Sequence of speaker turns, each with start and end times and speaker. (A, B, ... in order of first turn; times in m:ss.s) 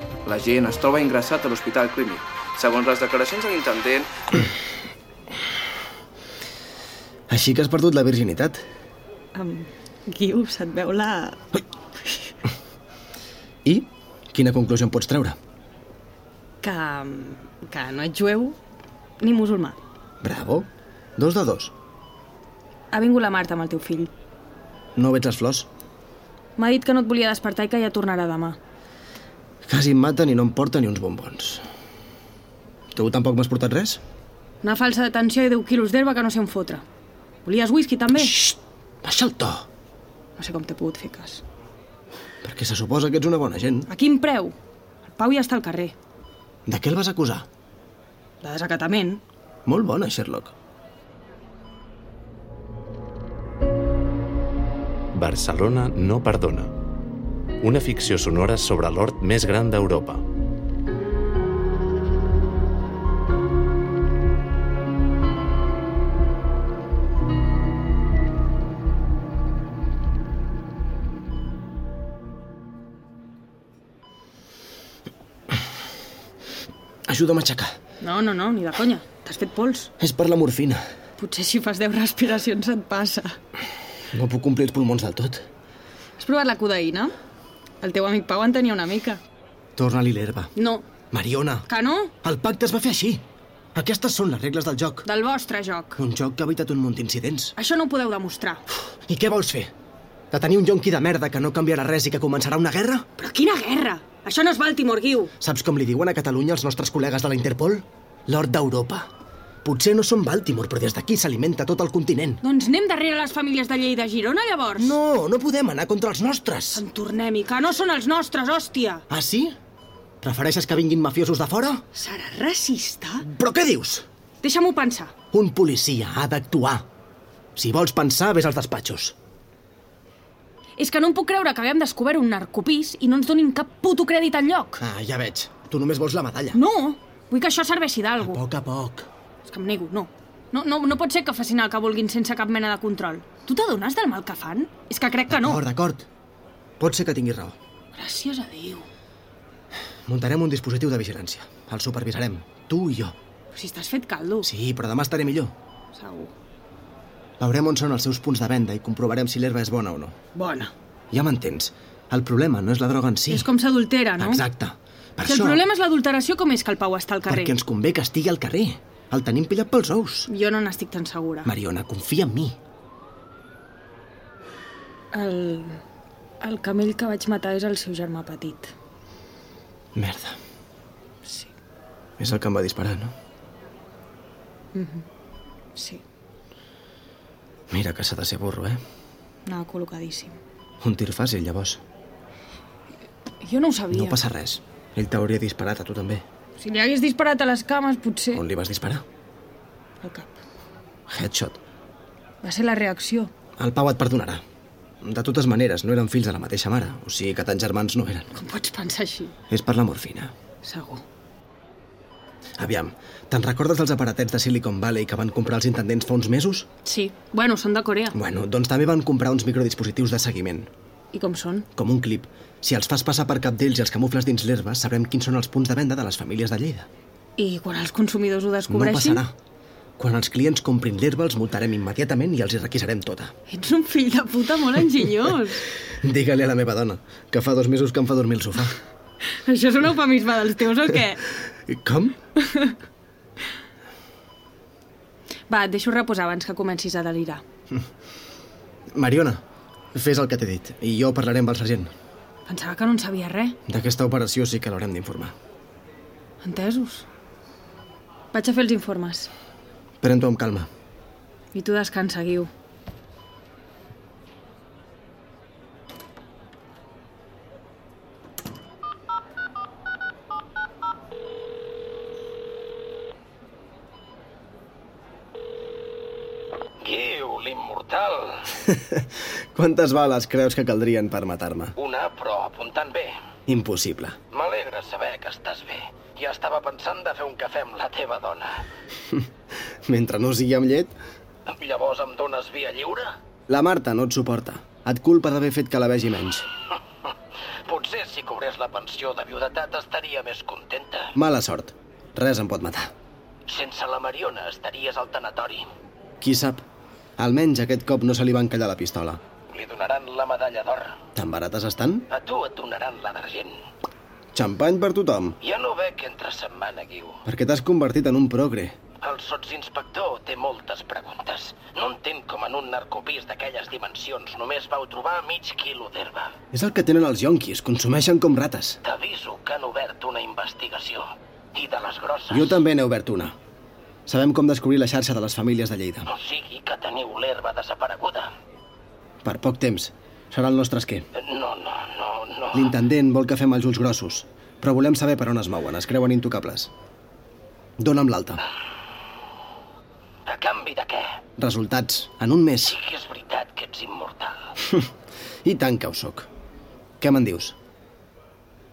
0:00.2-0:04.4 A
0:07.3-0:08.6 B
0:09.3-0:11.4 C
0:13.6-0:15.4 B
0:16.6-0:18.6 C
0:19.2-0:19.8 C
0:20.2-0:21.7 B
0:22.9-0:24.1 C
0:25.0-0:25.7 B
0:26.6-0:28.6 C
0:29.7-0:31.6 B
0:32.9-0:34.0 B
0:34.6-0:36.8 C
0:37.4-0:38.4 C
0:38.2-0:39.7 B
0:40.4-0:41.4 C
0:42.4-0:43.9 B
0:43.9-0:44.5 C
0:45.1-0:45.9 C
0:46.6-0:47.5 B
0:48.4-0:49.2 C
0:49.6-0:50.5 B
0:55.1-0:56.7 D
0:57.6-1:00.2 D
1:17.1-1:17.7 B
1:18.0-1:19.9 C
1:20.0-1:20.8 B
1:21.2-1:23.4 C
1:24.1-1:25.4 B
1:26.2-1:27.1 C
1:27.8-1:29.2 C
1:29.8-1:30.5 B
1:30.6-1:30.9 C
1:31.1-1:31.7 B
1:31.7-1:32.1 C
1:32.2-1:33.2 B
1:33.7-1:35.0 B
1:35.0-1:36.0 C
1:36.0-1:37.5 B
1:37.6-1:38.6 C
1:39.1-1:39.7 B
1:40.3-1:43.1 B
1:43.2-1:45.3 C
1:45.4-1:49.1 B
1:49.6-1:52.4 B
1:52.4-1:55.0 C
1:54.8-1:56.8 B
1:56.7-1:59.0 C
1:59.1-1:59.6 B
2:00.2-2:01.8 B
2:01.9-2:03.2 C
2:03.2-2:04.0 B
2:04.4-2:05.1 C
2:05.3-2:06.8 B
2:07.6-2:09.1 B
2:10.8-2:14.8 C
2:14.8-2:16.6 B
2:16.5-2:18.4 C
2:18.2-2:19.1 B
2:19.4-2:25.6 C
2:25.3-2:26.0 B
2:26.8-2:27.6 B
2:27.9-2:28.9 C
2:30.0-2:33.1 B
2:33.5-2:34.5 C
2:34.4-2:35.5 B
2:35.9-2:36.3 C
2:37.4-2:40.2 B
2:40.3-2:40.7 C
2:41.1-2:43.5 B
2:43.3-2:44.4 C
2:44.2-2:45.6 B
2:45.2-2:47.5 C
2:47.3-2:50.3 B
2:50.3-2:51.5 C
2:51.4-2:52.6 B
2:55.1-2:55.8 C
2:56.4-2:58.7 C
2:59.9-3:00.4 B
3:02.2-3:03.1 B
3:04.7-3:05.0 C
3:05.7-3:06.0 C
3:07.7-3:08.8 B
3:09.4-3:10.4 C
3:10.8-3:11.8 B
3:13.4-3:14.2 C
3:13.9-3:16.2 B
3:16.6-3:18.4 C
3:18.3-3:19.0 B
3:20.0-3:20.4 C
3:21.1-3:21.6 B
3:22.4-3:23.3 C
3:23.6-3:24.4 B
3:25.0-3:28.3 B
3:28.3-3:29.3 C
3:29.5-3:30.3 B
3:30.6-3:31.0 C
3:32.6-3:36.7 B
3:36.8-3:38.2 C
3:38.1-3:40.7 B
3:41.1-3:41.7 C
3:41.8-3:46.9 B
3:47.4-3:49.2 C
3:48.7-3:49.3 B
3:50.0-3:53.3 B
3:53.5-3:55.6 C
3:56.0-3:58.8 B
3:59.3-4:01.2 C
4:01.7-4:02.2 B
4:02.4-4:02.7 C
4:05.5-4:07.4 C
4:08.9-4:09.4 B
4:09.9-4:11.9 B
4:12.5-4:13.6 C
4:13.7-4:15.3 B
4:16.4-4:17.0 C
4:18.3-4:19.3 C
4:20.0-4:20.7 B
4:21.5-4:22.5 C
4:36.8-4:38.4 E
4:38.5-4:41.7 B
4:41.8-4:43.1 E
4:43.5-4:44.2 B
4:44.3-4:48.5 E
4:49.8-4:50.9 B
4:51.5-4:53.1 E
4:53.5-4:56.4 B
4:57.7-5:01.0 E
5:01.1-5:02.9 B
5:03.5-5:05.6 E
5:06.2-5:06.6 B
5:07.2-5:09.2 B
5:09.5-5:11.0 E
5:11.1-5:12.1 B
5:12.1-5:13.5 E
5:14.3-5:15.4 B
5:15.4-5:17.2 E
5:17.2-5:18.8 B
5:19.0-5:26.3 E
5:26.5-5:28.8 B
5:28.8-5:32.4 E
5:32.3-5:33.3 B
5:34.1-5:36.1 B
5:36.1-5:38.3 E
5:39.2-5:41.1 B
5:41.2-5:42.5 E
5:42.5-5:46.7 B
5:47.8-5:48.4 B
5:50.3-5:51.0 E
5:51.4-5:52.8 B
5:52.7-5:54.5 E
5:54.6-5:54.9 B
5:55.4-5:56.3 B
5:57.0-5:57.6 B